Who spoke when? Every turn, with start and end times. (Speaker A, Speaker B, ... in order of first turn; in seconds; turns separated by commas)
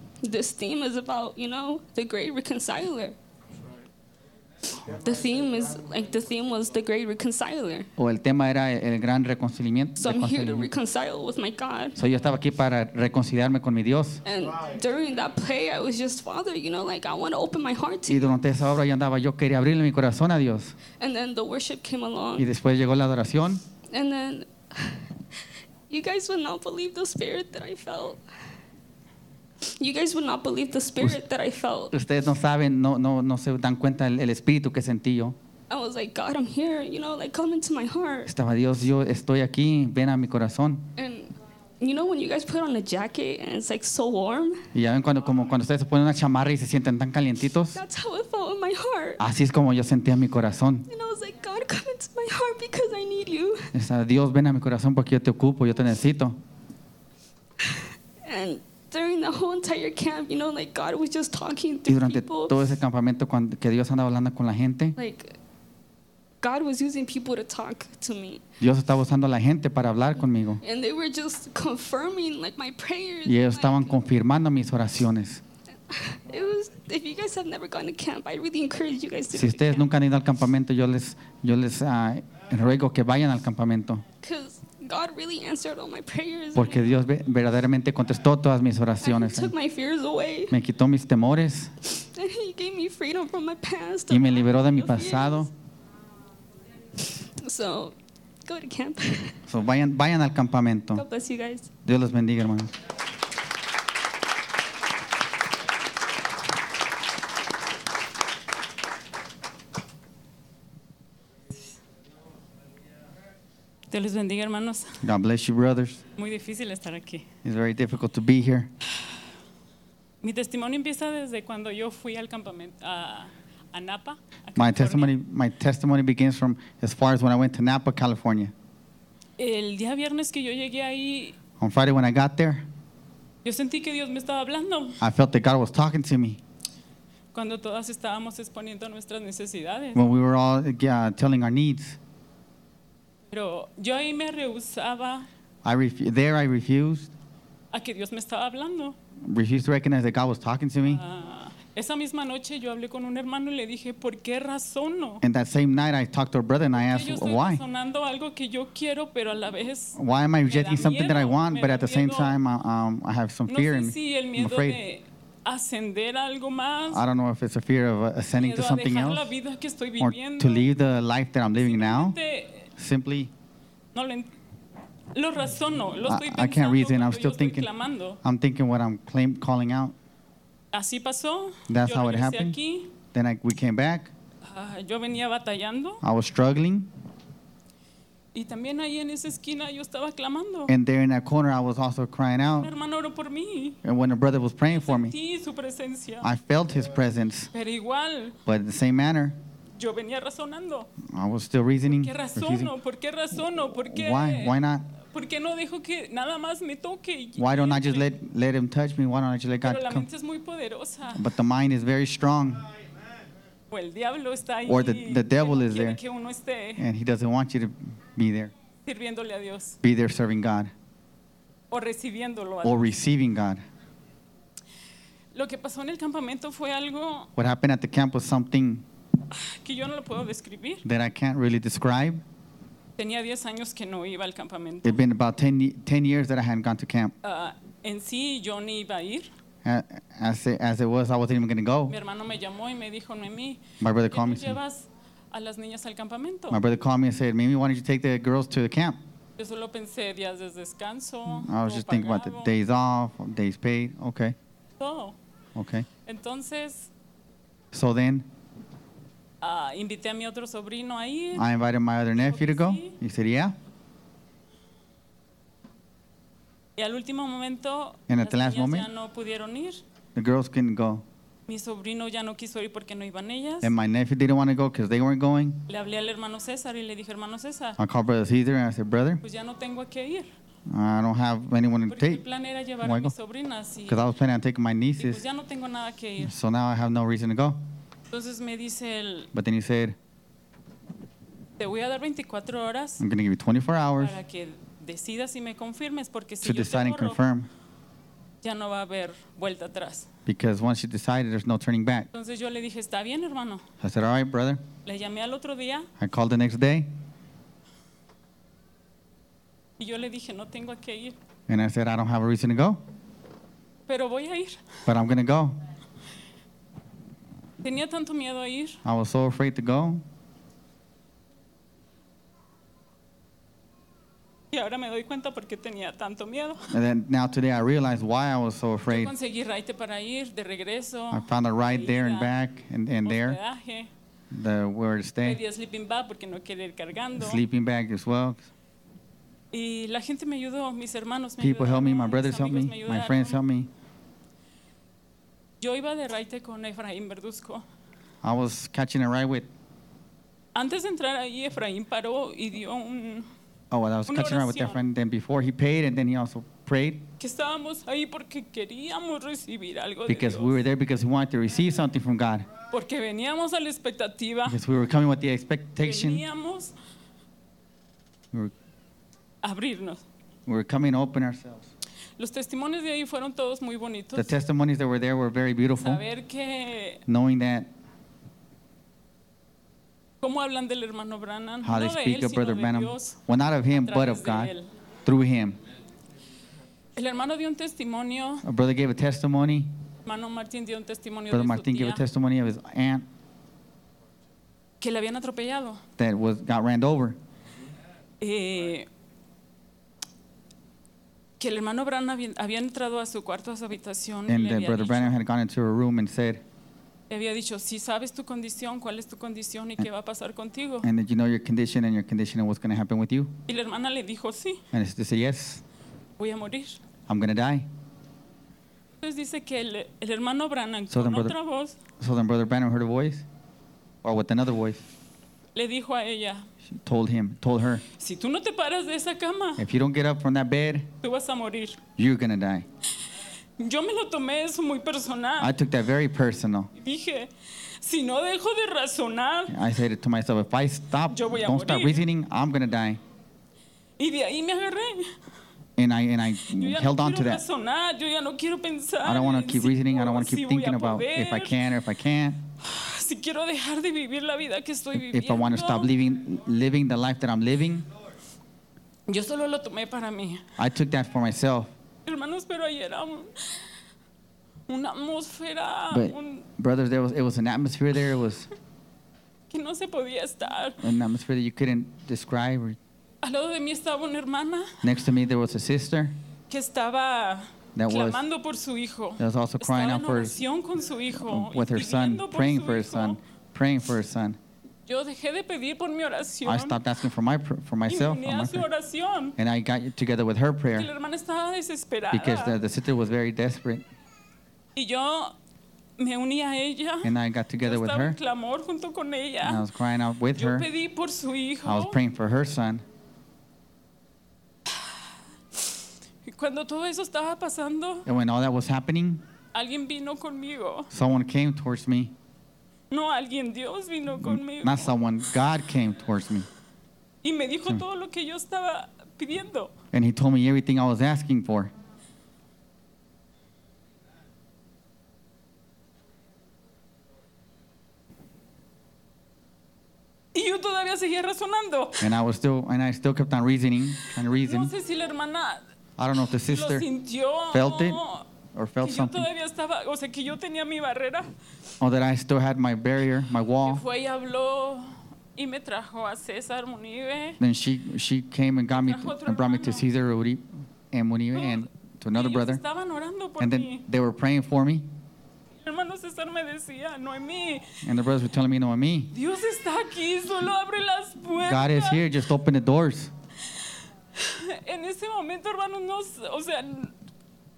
Speaker A: 0.2-3.2, Speaker A: 4.8-7.9, Speaker B: 8.0-10.7, Speaker A: 10.0-12.0, Speaker B: 12.0-14.2, Speaker A: 14.2-18.4, Speaker B: 18.1-20.8, Speaker A: 21.0-22.5, Speaker B: 22.4-23.6, Speaker A: 23.9-25.0, Speaker A: 25.9-28.2, Speaker A: 29.6-31.9, Speaker B: 31.9-35.4, Speaker A: 35.7-38.3, Speaker B: 38.3-40.9, Speaker A: 41.0-44.6, Speaker B: 44.7-47.8, Speaker A: 47.7-49.2, Speaker B: 49.2-50.9, Speaker A: 50.9-53.7, Speaker B: 53.7-56.4, Speaker A: 57.6-62.8, Speaker B: 61.9-65.0, Speaker A: 65.0-65.4, Speaker A: 66.4-68.4, Speaker B: 68.6-70.6, Speaker A: 70.6-74.0, Speaker B: 73.3-75.4, Speaker A: 75.9-79.9, Speaker B: 79.3-84.0, Speaker A: 84.2-86.9, Speaker B: 86.5-89.5, Speaker A: 89.0-90.6, Speaker B: 90.5-91.7, Speaker A: 91.9-95.5, Speaker B: 94.1-95.5, Speaker A: 97.0-99.4, Speaker B: 99.5-101.0, Speaker A: 100.9-101.7, Speaker B: 101.8-102.7, Speaker C: 113.9-115.0, Speaker B: 115.0-116.0, Speaker C: 116.2-117.3, Speaker B: 117.5-118.7, Speaker C: 120.2-125.1, Speaker B: 124.5-128.5, Speaker C: 129.4-131.4, Speaker B: 131.6-132.7, Speaker C: 133.4-135.0, Speaker B: 135.0-136.4, Speaker C: 137.3-140.0, Speaker B: 139.9-142.0, Speaker C: 143.3-145.3, Speaker B: 145.7-147.1, Speaker C: 147.7-149.0, Speaker B: 149.2-151.0, Speaker C: 150.9-155.2, Speaker B: 155.2-157.6, Speaker C: 156.8-160.0, Speaker B: 160.0-164.8, Speaker C: 160.5-162.4, Speaker C: 163.5-167.0, Speaker B: 166.9-169.3, Speaker C: 168.4-170.7, Speaker B: 170.0-172.2, Speaker C: 171.6-172.7, Speaker B: 172.8-173.3, Speaker C: 173.9-174.3, Speaker C: 175.2-178.2, Speaker B: 176.1-177.7, Speaker B: 178.2-179.9, Speaker C: 180.7-182.9, Speaker B: 181.7-182.6, Speaker B: 183.1-184.1, Speaker C: 184.5-186.0, Speaker B: 186.0-186.9, Speaker C: 188.3-190.7, Speaker B: 190.7-192.7, Speaker C: 192.6-193.8, Speaker B: 193.8-195.1, Speaker C: 194.7-196.3, Speaker B: 196.2-197.5, Speaker C: 197.5-198.4, Speaker B: 198.5-199.4, Speaker C: 199.8-200.9, Speaker B: 201.1-202.7, Speaker C: 201.9-204.5, Speaker B: 203.7-204.9, Speaker C: 205.1-208.1, Speaker B: 207.4-210.1, Speaker C: 209.6-211.2, Speaker B: 211.2-212.7, Speaker C: 213.7-216.8, Speaker B: 214.7-216.0, Speaker B: 216.8-218.5, Speaker C: 218.9-219.8, Speaker B: 219.8-220.7, Speaker C: 221.7-222.9, Speaker B: 222.6-223.6, Speaker C: 225.3-227.3, Speaker B: 227.4-228.8, Speaker C: 229.3-230.8, Speaker B: 230.8-232.2, Speaker C: 233.0-235.0, Speaker B: 234.8-237.1, Speaker C: 237.2-239.3, Speaker B: 239.6-241.9, Speaker C: 241.9-246.6, Speaker B: 243.8-244.6, Speaker B: 246.5-249.0, Speaker C: 249.4-252.5, Speaker B: 251.3-254.3, Speaker C: 254.8-255.2, Speaker B: 255.6-255.9, Speaker C: 256.1-256.9, Speaker B: 257.7-258.3, Speaker C: 259.4-261.5, Speaker B: 261.4-263.6, Speaker C: 262.1-263.0, Speaker C: 266.8-269.8, Speaker B: 268.1-268.9, Speaker B: 270.1-271.1, Speaker C: 271.5-273.7, Speaker B: 273.6-275.6, Speaker C: 275.7-277.8, Speaker B: 277.8-279.2, Speaker C: 279.2-280.3, Speaker B: 280.7-282.2, Speaker C: 281.9-284.0, Speaker B: 282.8-283.1, Speaker B: 283.9-285.2, Speaker C: 285.0-286.3, Speaker B: 286.2-287.6, Speaker C: 288.1-289.3, Speaker B: 289.3-290.0, Speaker C: 291.6-293.0, Speaker B: 293.0-294.2, Speaker C: 294.0-297.2, Speaker B: 296.4-297.5, Speaker C: 298.4-300.1, Speaker B: 300.3-302.1, Speaker C: 302.1-303.6, Speaker B: 303.8-304.6, Speaker C: 304.9-305.9, Speaker B: 306.0-306.9, Speaker C: 309.8-311.1, Speaker B: 311.5-312.8, Speaker C: 313.9-314.6, Speaker B: 314.9-315.6, Speaker C: 317.6-318.8, Speaker B: 318.9-320.0, Speaker C: 324.5-326.7, Speaker B: 326.7-329.1, Speaker C: 328.9-332.3, Speaker B: 331.1-333.4, Speaker C: 333.1-333.9, Speaker B: 334.3-335.4, Speaker C: 335.2-337.4, Speaker B: 337.1-338.5, Speaker C: 339.5-343.4, Speaker B: 341.4-343.7, Speaker C: 345.6-347.6, Speaker B: 348.2-349.5, Speaker C: 350.6-353.3, Speaker B: 353.7-357.0, Speaker C: 354.1-354.8, Speaker C: 357.2-360.6, Speaker B: 360.1-362.5, Speaker C: 362.7-364.6, Speaker B: 364.4-366.2, Speaker C: 365.8-366.8, Speaker C: 369.4-370.0, Speaker B: 370.5-371.7, Speaker C: 372.2-374.3, Speaker B: 374.1-376.0, Speaker C: 375.8-377.0, Speaker B: 377.1-377.7, Speaker C: 380.2-383.2, Speaker B: 381.6-384.5, Speaker C: 383.8-384.7, Speaker B: 385.1-385.6, Speaker C: 387.0-388.4, Speaker B: 388.4-389.7, Speaker C: 390.1-392.0, Speaker B: 391.3-393.1, Speaker C: 394.8-395.8, Speaker B: 396.0-397.2, Speaker C: 398.2-398.9, Speaker C: 401.4-405.1, Speaker B: 404.3-406.4, Speaker C: 407.1-410.9, Speaker B: 410.8-413.3, Speaker C: 413.5-414.6, Speaker B: 414.7-415.6, Speaker C: 416.2-416.8, Speaker B: 417.1-417.7, Speaker C: 419.0-421.8, Speaker B: 420.9-421.4, Speaker B: 422.0-423.3, Speaker B: 424.0-424.9, Speaker C: 425.6-426.5, Speaker B: 426.7-427.8, Speaker C: 428.0-429.6, Speaker B: 429.6-430.9, Speaker C: 431.0-431.8, Speaker B: 432.0-432.7, Speaker C: 433.6-435.5, Speaker B: 435.4-436.7, Speaker C: 436.8-437.3, Speaker C: 437.8-439.6, Speaker B: 439.5-443.0, Speaker C: 441.1-442.0, Speaker C: 444.0-445.1, Speaker B: 445.8-447.4, Speaker C: 446.6-451.6, Speaker B: 449.0-452.4, Speaker C: 452.6-455.9, Speaker B: 454.9-457.9, Speaker C: 459.1-460.4, Speaker B: 460.6-461.7, Speaker C: 462.1-463.6, Speaker C: 464.7-466.4, Speaker B: 465.9-468.5, Speaker C: 469.5-470.8, Speaker B: 470.8-472.8, Speaker C: 473.2-474.8, Speaker B: 474.8-476.2, Speaker C: 476.5-483.2, Speaker B: 477.8-478.2, Speaker B: 479.2-480.4, Speaker B: 481.1-484.4, Speaker C: 484.9-486.8, Speaker B: 486.4-488.7, Speaker C: 487.9-489.4, Speaker B: 489.4-490.9, Speaker C: 490.7-492.6, Speaker B: 492.1-493.8, Speaker C: 494.8-495.4, Speaker C: 496.0-499.6, Speaker B: 497.0-498.2, Speaker B: 499.4-500.7, Speaker C: 500.4-502.0, Speaker B: 501.6-502.8, Speaker C: 506.2-508.1, Speaker B: 508.1-509.2, Speaker C: 509.5-510.9, Speaker B: 510.9-512.1, Speaker C: 512.9-515.0, Speaker B: 514.2-516.5, Speaker C: 517.2-519.7, Speaker B: 519.9-521.7, Speaker C: 530.3-532.1, Speaker B: 532.0-534.7, Speaker C: 534.4-535.6, Speaker B: 536.0-536.9, Speaker C: 536.5-538.2, Speaker B: 537.5-538.0, Speaker B: 538.5-539.3, Speaker C: 538.8-541.3, Speaker B: 541.8-543.8, Speaker C: 543.6-547.4, Speaker B: 547.4-552.6, Speaker C: 548.7-549.9, Speaker C: 551.4-553.8, Speaker B: 553.4-554.9, Speaker C: 555.6-557.7, Speaker B: 557.8-559.1, Speaker C: 559.1-562.1, Speaker B: 561.4-563.1, Speaker C: 564.1-566.9